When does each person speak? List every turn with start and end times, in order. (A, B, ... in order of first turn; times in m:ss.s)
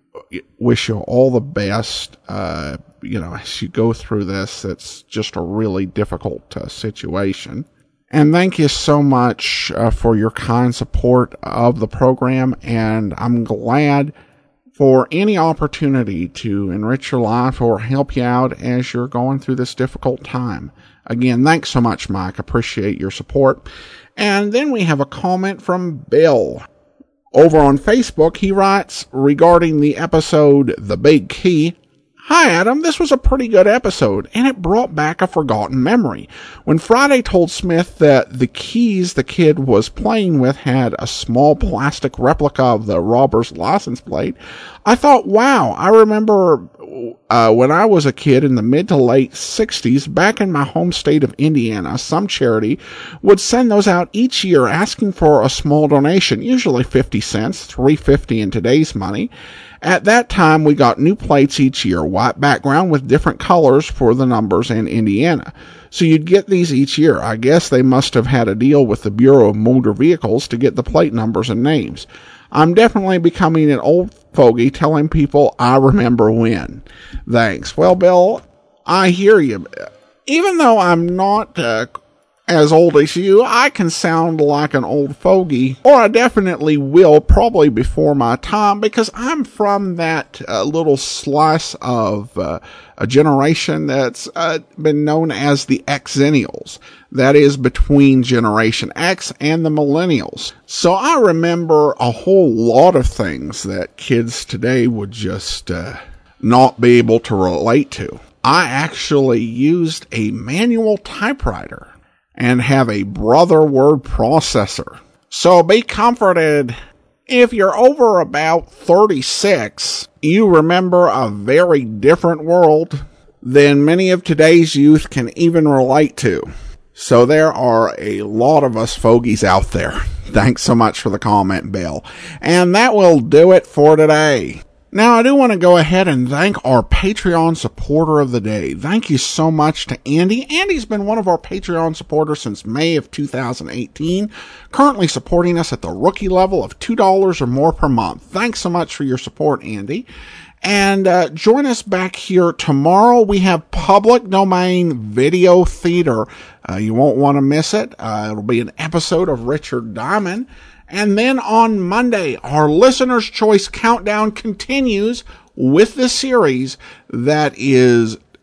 0:00.3-0:14.1 A
0:14.8-0:23.6 A
0:24.2-0:26.6 A
0:27.3-0:59.3 A
0:59.8-1:21.9 A
1:22.5-1:56.8 A
1:57.3-2:30.1 A
2:30.6-2:48.2 A